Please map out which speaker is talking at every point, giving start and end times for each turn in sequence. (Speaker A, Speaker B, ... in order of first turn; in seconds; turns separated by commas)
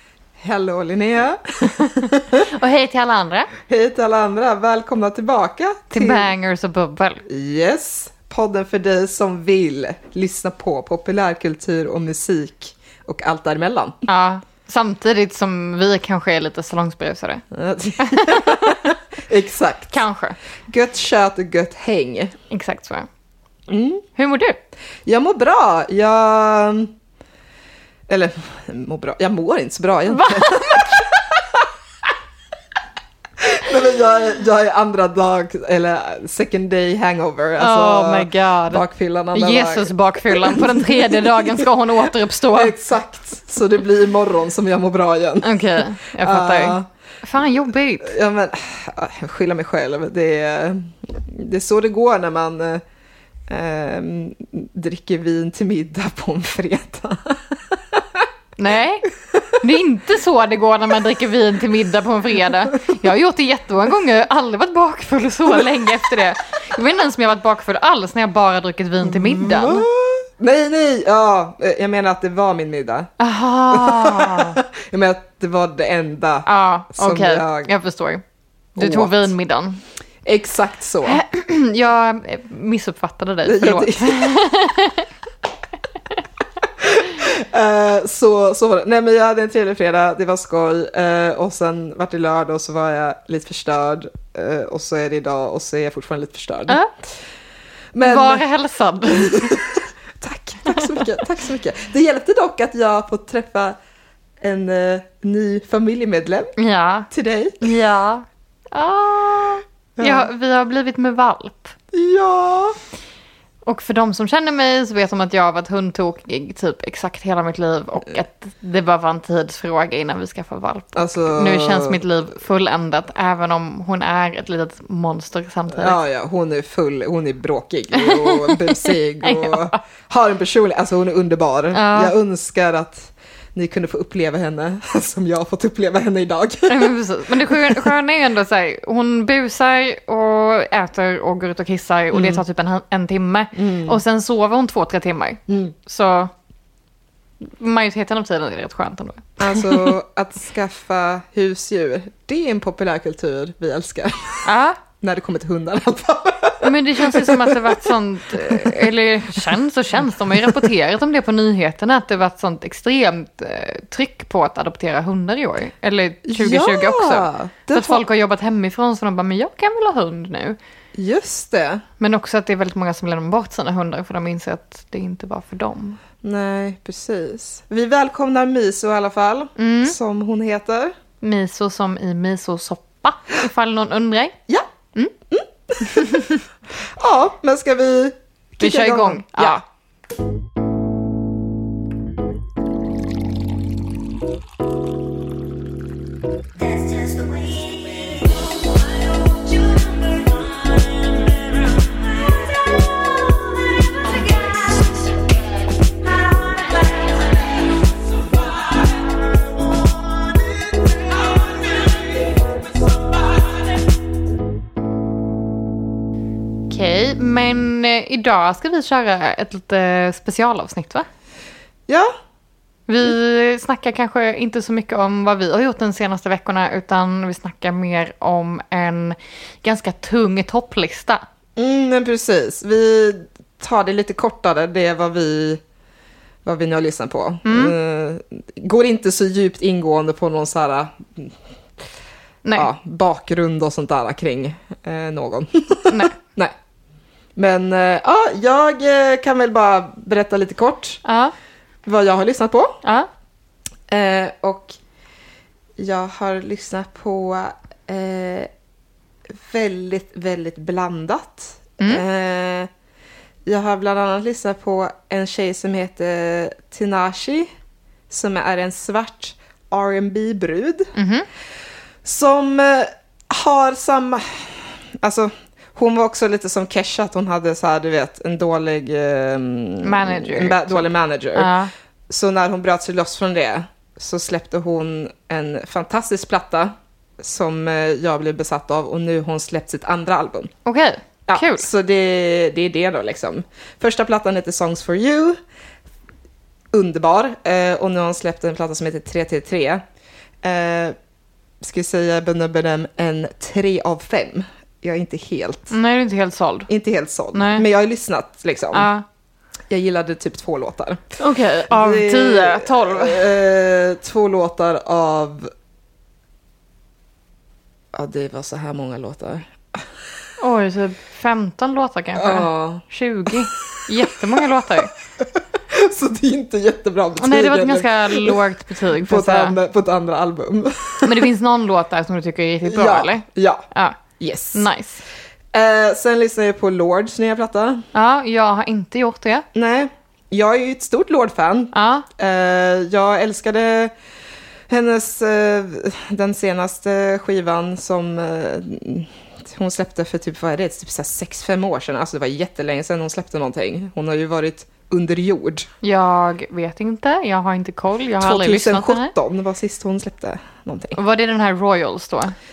Speaker A: 0.4-2.4, Speaker B: 1.8-3.5, Speaker A: 3.6-6.3, Speaker B: 5.9-7.2, Speaker A: 7.3-14.0, Speaker B: 14.1-17.4, Speaker A: 17.5-20.0, Speaker B: 18.0-18.9, Speaker B: 19.9-20.4, Speaker A: 20.7-22.4, Speaker B: 22.5-23.1, Speaker A: 23.7-24.1, Speaker B: 24.2-24.6, Speaker A: 25.1-26.9, Speaker A: 28.1-31.7, Speaker B: 30.1-31.0, Speaker A: 33.4-41.7, Speaker B: 37.6-42.8, Speaker A: 42.5-46.9, Speaker B: 45.4-48.1, Speaker A: 48.0-52.8, Speaker A: 53.5-58.3, Speaker B: 58.6-69.9, Speaker A: 65.5-65.8, Speaker A: 69.0-73.1, Speaker B: 73.2-74.6, Speaker A: 73.7-77.7, Speaker B: 76.5-78.2, Speaker A: 78.8-79.3, Speaker B: 78.8-79.8, Speaker A: 80.2-81.2, Speaker B: 81.0-85.1, Speaker A: 83.5-84.4, Speaker A: 86.6-96.8, Speaker A: 97.9-98.4, Speaker B: 98.0-99.6, Speaker A: 99.1-103.8, Speaker B: 100.7-101.1, Speaker A: 104.4-106.5, Speaker B: 106.6-107.1, Speaker A: 107.1-107.6, Speaker B: 107.6-111.8, Speaker A: 110.0-110.3, Speaker A: 111.9-112.8, Speaker B: 113.7-126.0, Speaker A: 121.0-122.0, Speaker A: 125.7-137.9, Speaker B: 128.0-129.8, Speaker B: 131.7-132.2, Speaker B: 136.7-146.3, Speaker A: 142.1-142.4, Speaker A: 143.6-144.0, Speaker A: 145.5-145.7, Speaker B: 147.4-149.9, Speaker A: 149.4-154.5, Speaker B: 154.4-154.8, Speaker A: 155.0-158.9, Speaker B: 156.6-170.6, Speaker A: 160.3-160.7, Speaker A: 166.2-168.0, Speaker A: 170.9-171.8, Speaker B: 172.0-176.0, Speaker A: 176.2-180.9, Speaker B: 179.6-180.0, Speaker B: 181.2-184.4, Speaker A: 185.3-186.3, Speaker B: 185.9-186.4, Speaker A: 186.8-189.6, Speaker B: 188.6-189.6, Speaker C: 196.6-205.2, Speaker C: 206.0-207.4, Speaker C: 208.2-209.0, Speaker C: 210.0-213.2, Speaker B: 216.7-221.1, Speaker A: 221.9-222.1, Speaker B: 222.9-231.2, Speaker A: 231.6-235.6, Speaker A: 236.4-241.4, Speaker B: 237.4-237.7, Speaker B: 242.4-242.7, Speaker A: 242.6-246.5, Speaker B: 245.9-246.2, Speaker A: 247.4-251.0, Speaker B: 251.0-251.3, Speaker A: 251.9-252.8, Speaker A: 253.9-254.8, Speaker A: 255.8-258.5, Speaker A: 259.4-262.7, Speaker A: 263.5-267.5, Speaker A: 268.1-270.9, Speaker B: 270.9-271.3, Speaker A: 272.0-281.5, Speaker B: 279.8-281.7, Speaker A: 282.1-290.5, Speaker B: 290.6-291.7, Speaker A: 291.3-295.4, Speaker A: 296.7-299.8, Speaker A: 300.4-301.0, Speaker A: 301.6-305.7, Speaker B: 305.7-306.7, Speaker A: 306.7-308.9, Speaker B: 307.3-307.6, Speaker B: 308.7-309.1, Speaker A: 309.7-311.1, Speaker B: 311.2-313.2, Speaker A: 311.7-315.5, Speaker A: 317.9-319.9, Speaker B: 320.4-324.9, Speaker A: 322.2-331.3, Speaker B: 327.2-329.6, Speaker B: 331.0-334.0, Speaker A: 332.6-333.6, Speaker A: 334.2-334.7, Speaker B: 334.5-335.0, Speaker A: 335.5-337.9, Speaker B: 337.9-339.4, Speaker A: 339.5-343.9, Speaker B: 341.7-342.1, Speaker A: 344.7-355.7, Speaker B: 355.8-359.1, Speaker A: 358.2-361.0, Speaker B: 360.9-362.4